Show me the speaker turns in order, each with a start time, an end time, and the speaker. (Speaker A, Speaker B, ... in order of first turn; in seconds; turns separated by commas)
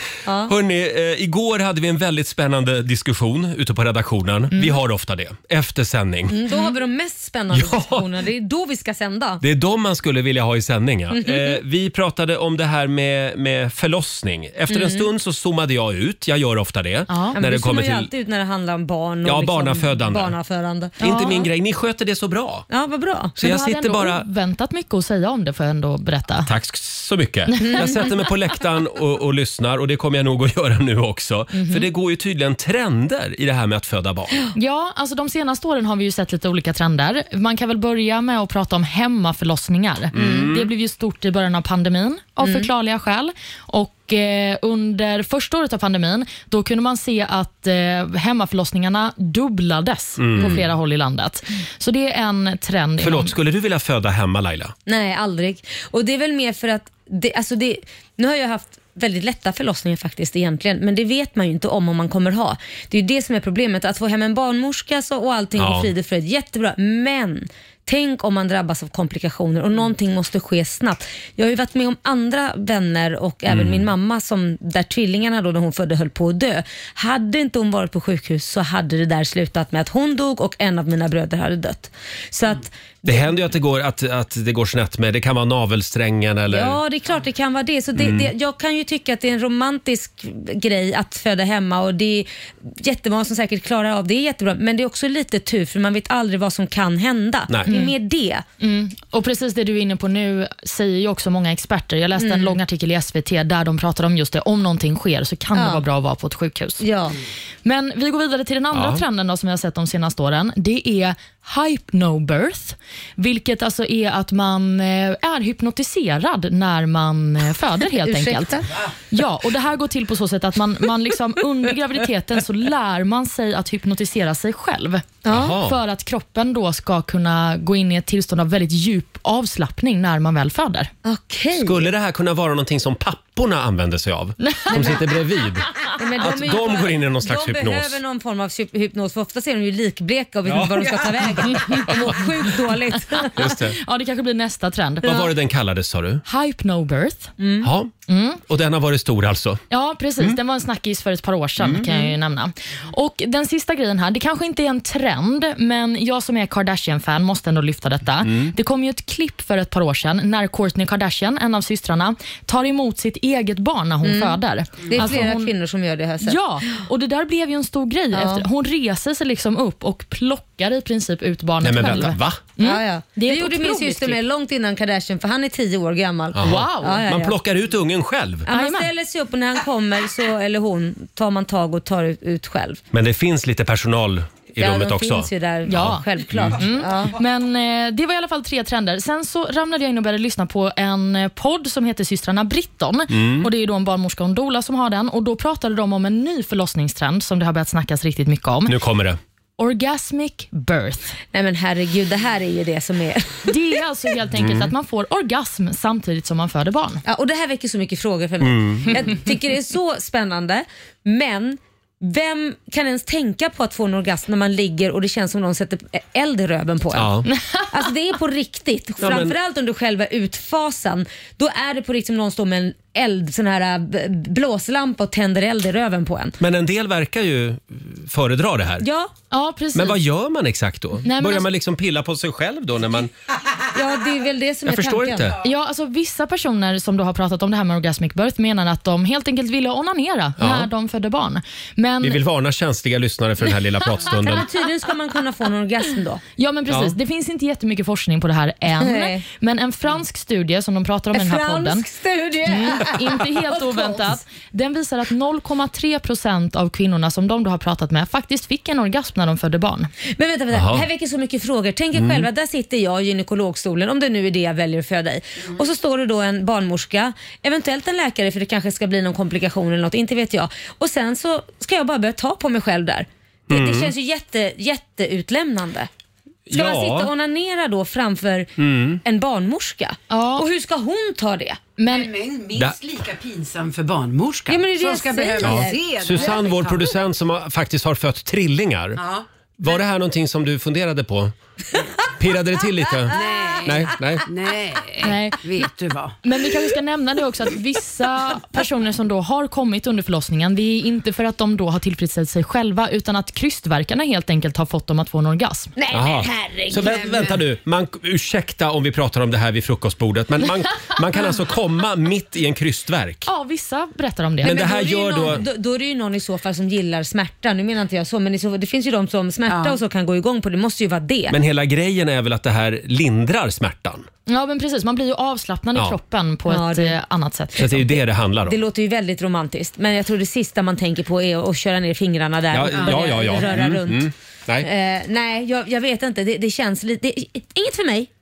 Speaker A: 0.2-0.5, Speaker B: 0.5-6.4, Speaker A: 6.3-9.4, Speaker B: 7.5-8.1, Speaker B: 9.4-18.1, Speaker A: 11.1-11.6, Speaker A: 14.7-15.1, Speaker C: 17.1-17.4, Speaker A: 17.3-21.4, Speaker B: 19.2-20.3, Speaker C: 21.0-21.4, Speaker B: 21.0-22.6, Speaker A: 22.7-23.3, Speaker B: 23.4-24.2, Speaker C: 23.4-26.5, Speaker B: 26.4-34.4, Speaker C: 27.5-27.9, Speaker A: 27.7-28.0, Speaker C: 31.5-31.8, Speaker C: 34.5-53.3, Speaker B: 40.1-40.7, Speaker A: 40.2-40.5, Speaker A: 42.4-42.7, Speaker B: 50.2-50.6, Speaker B: 53.0-54.7, Speaker A: 54.9-83.2, Speaker B: 65.6-65.9, Speaker B: 73.5-73.9, Speaker B: 83.0-86.8, Speaker A: 86.5-98.4, Speaker B: 88.0-88.3, Speaker C: 97.7-97.9, Speaker C: 98.6-106.8, Speaker A: 102.2-102.6, Speaker A: 105.5-105.8, Speaker A: 106.8-107.2, Speaker C: 107.6-130.9, Speaker B: 108.7-109.0, Speaker A: 118.0-118.8, Speaker A: 125.2-125.5, Speaker B: 125.3-125.8, Speaker A: 131.0-131.9, Speaker B: 131.5-138.0, Speaker C: 134.4-134.7, Speaker A: 134.7-135.0, Speaker A: 135.9-143.5, Speaker B: 140.4-142.2, Speaker B: 143.3-143.8, Speaker C: 143.8-145.2, Speaker B: 145.0-146.2, Speaker C: 146.2-147.3, Speaker A: 147.4-147.7, Speaker B: 147.6-147.9, Speaker C: 148.1-148.4, Speaker B: 148.4-149.6, Speaker C: 149.7-165.5, Speaker B: 151.6-152.1, Speaker B: 158.2-158.5, Speaker A: 164.0-166.4, Speaker C: 166.2-174.2, Speaker A: 168.1-168.4, Speaker B: 171.6-172.4, Speaker A: 172.6-177.3, Speaker B: 176.3-178.5, Speaker C: 176.4-177.0, Speaker A: 178.5-182.8, Speaker C: 178.5-178.9, Speaker B: 182.9-186.6, Speaker A: 184.6-187.2, Speaker C: 185.7-198.8, Speaker B: 193.1-193.5, Speaker B: 198.7-199.2, Speaker C: 199.6-201.1, Speaker A: 201.3-203.5, Speaker C: 203.4-207.0, Speaker B: 204.4-204.7, Speaker A: 207.1-226.4, Speaker B: 208.4-209.0, Speaker B: 216.9-217.3, Speaker B: 219.0-219.3, Speaker B: 226.4-228.8, Speaker A: 228.8-229.1, Speaker C: 229.3-230.0, Speaker B: 229.7-233.1, Speaker C: 231.0-231.4, Speaker A: 233.7-235.4, Speaker B: 234.7-235.4, Speaker C: 235.4-242.2, Speaker B: 240.4-240.7, Speaker B: 242.0-244.5, Speaker A: 244.0-246.2, Speaker C: 246.4-251.8, Speaker B: 246.7-246.9, Speaker A: 248.8-249.2, Speaker A: 251.1-254.1, Speaker C: 252.4-259.9, Speaker A: 260.1-275.9, Speaker B: 260.5-260.9, Speaker B: 261.9-262.3, Speaker B: 273.5-273.9, Speaker B: 276.5-277.1, Speaker A: 276.5-281.6, Speaker B: 278.6-279.0, Speaker C: 280.1-280.4, Speaker C: 281.8-282.1, Speaker D: 281.8-286.9, Speaker A: 284.5-286.4, Speaker B: 285.4-289.0, Speaker D: 289.0-289.2, Speaker B: 289.6-291.3, Speaker B: 292.1-294.3, Speaker D: 293.1-296.2, Speaker C: 295.0-295.6, Speaker C: 296.2-305.7, Speaker A: 305.8-307.3, Speaker B: 305.9-313.3, Speaker D: 306.8-307.3, Speaker C: 313.2-314.6, Speaker B: 314.4-315.4, Speaker A: 314.4-321.4, Speaker D: 319.5-319.8, Speaker B: 321.3-324.1, Speaker C: 324.3-327.9, Speaker A: 326.5-327.0, Speaker B: 327.6-328.6, Speaker A: 328.4-334.1, Speaker B: 332.5-334.7, Speaker D: 332.7-333.4, Speaker A: 334.6-338.1